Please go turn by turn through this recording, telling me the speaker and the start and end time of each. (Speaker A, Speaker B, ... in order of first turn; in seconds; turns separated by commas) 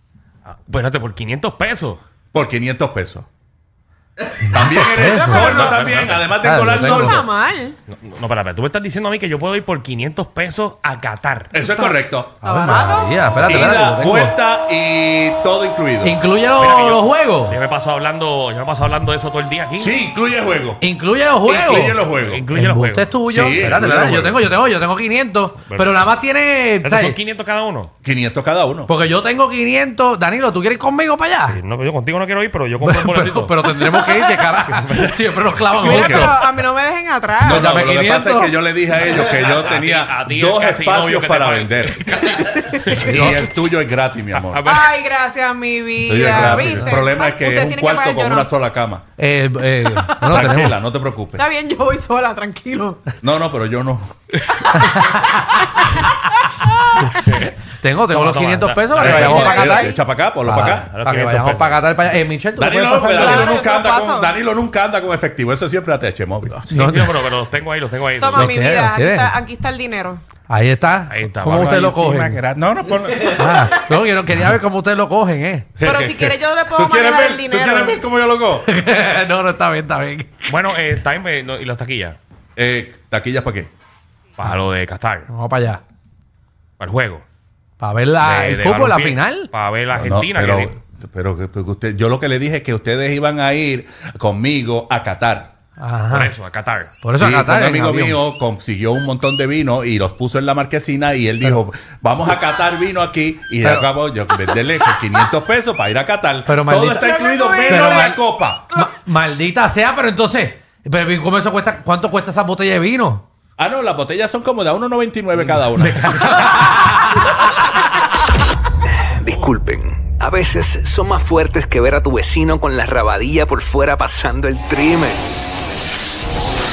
Speaker A: 0.5-2.0, Speaker B: 2.3-3.3, Speaker B: 4.5-7.2, Speaker C: 4.5-5.6, Speaker D: 5.1-5.7, Speaker A: 5.3-6.3, Speaker C: 6.4-7.2, Speaker D: 6.7-7.8, Speaker A: 7.9-11.5, Speaker B: 11.5-12.4, Speaker D: 11.6-13.5, Speaker C: 12.4-14.3, Speaker B: 13.3-16.2, Speaker C: 16.0-17.6, Speaker A: 16.6-20.0, Speaker B: 19.8-20.8, Speaker C: 20.8-27.2, Speaker B: 21.4-22.4, Speaker A: 22.1-23.2, Speaker B: 23.3-24.4, Speaker A: 25.6-26.1, Speaker A: 26.8-27.9, Speaker B: 28.0-28.9, Speaker C: 28.9-31.6, Speaker A: 31.5-34.1, Speaker C: 32.8-36.4, Speaker A: 34.6-35.9, Speaker D: 35.8-37.7, Speaker B: 35.9-36.4, Speaker B: 37.4-42.1, Speaker C: 37.5-38.5, Speaker A: 39.0-43.2, Speaker D: 42.1-43.1, Speaker B: 42.9-44.6, Speaker C: 43.0-43.4, Speaker A: 44.3-45.0, Speaker D: 44.6-48.5, Speaker B: 46.0-49.0, Speaker A: 46.3-46.7, Speaker C: 46.4-46.9, Speaker C: 49.2-50.8, Speaker D: 49.9-50.6, Speaker B: 50.3-51.5, Speaker D: 51.3-53.1, Speaker B: 53.2-54.4, Speaker D: 54.5-57.2, Speaker C: 54.7-55.3, Speaker A: 57.1-57.5, Speaker C: 57.7-63.5, Speaker A: 58.1-59.7, Speaker B: 58.9-60.9, Speaker D: 59.2-60.0, Speaker A: 60.5-61.8, Speaker B: 62.6-66.7, Speaker D: 63.0-64.3, Speaker C: 66.5-67.2, Speaker A: 66.7-68.6, Speaker D: 68.2-70.2, Speaker C: 68.3-69.3, Speaker C: 70.5-72.4, Speaker A: 71.1-71.7, Speaker B: 71.5-73.7, Speaker C: 73.2-75.9, Speaker B: 75.8-78.7, Speaker D: 75.8-78.0, Speaker C: 78.6-80.6, Speaker A: 80.5-82.2, Speaker B: 82.5-83.7, Speaker A: 84.4-85.3, Speaker C: 85.3-85.8, Speaker A: 86.8-87.2, Speaker C: 87.8-89.5, Speaker A: 88.2-90.8, Speaker B: 89.9-95.5, Speaker C: 95.8-96.3, Speaker A: 96.1-96.9, Speaker C: 97.0-98.2, Speaker B: 97.2-108.7, Speaker C: 103.6-103.9, Speaker C: 106.5-107.1, Speaker D: 107.0-108.2, Speaker C: 107.6-108.2, Speaker C: 108.7-113.2, Speaker B: 113.6-116.7, Speaker C: 115.6-117.3, Speaker E: 119.0-125.3